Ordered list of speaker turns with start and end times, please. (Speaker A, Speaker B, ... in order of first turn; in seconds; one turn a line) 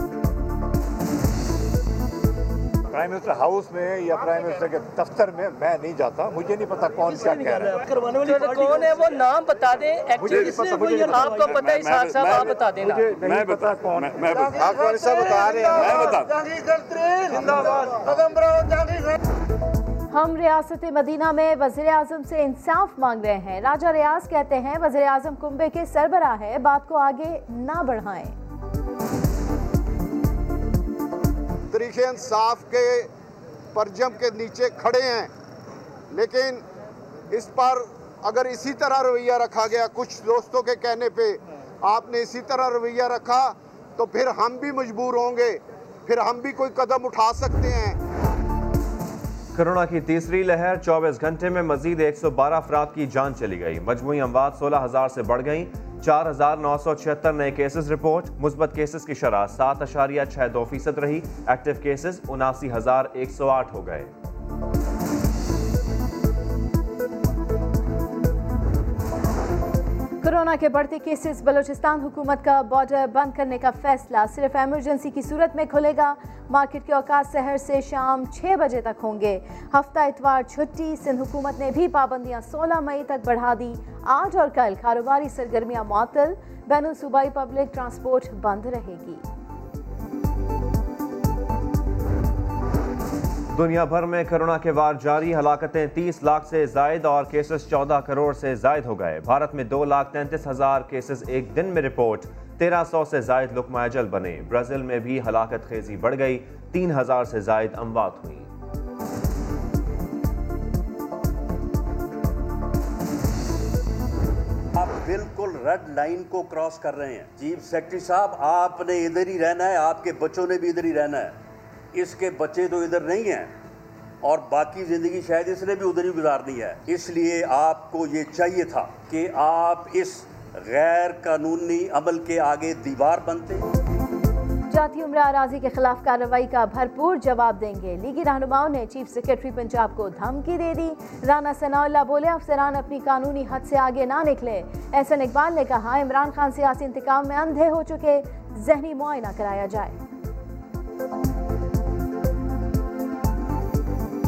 Speaker A: 2.9-7.9
Speaker B: 7.9-13.0
Speaker A: 10.2-11.1
Speaker C: 11.4-14.9
Speaker A: 12.8-14.1
Speaker D: 14.8-15.8
Speaker C: 15.4-16.4
Speaker E: 20.1-28.3
Speaker D: 31.7-33.1
Speaker D: 33.7-35.3
Speaker D: 36.1-36.6
Speaker D: 37.3-48.0
Speaker F: 49.5-64.1
Speaker E: 70.2-89.2
Speaker F: 93.5-108.5
Speaker C: 114.8-121.3
Speaker C: 121.9-123.5
Speaker C: 124.2-133.7
Speaker E: 134.7-150.0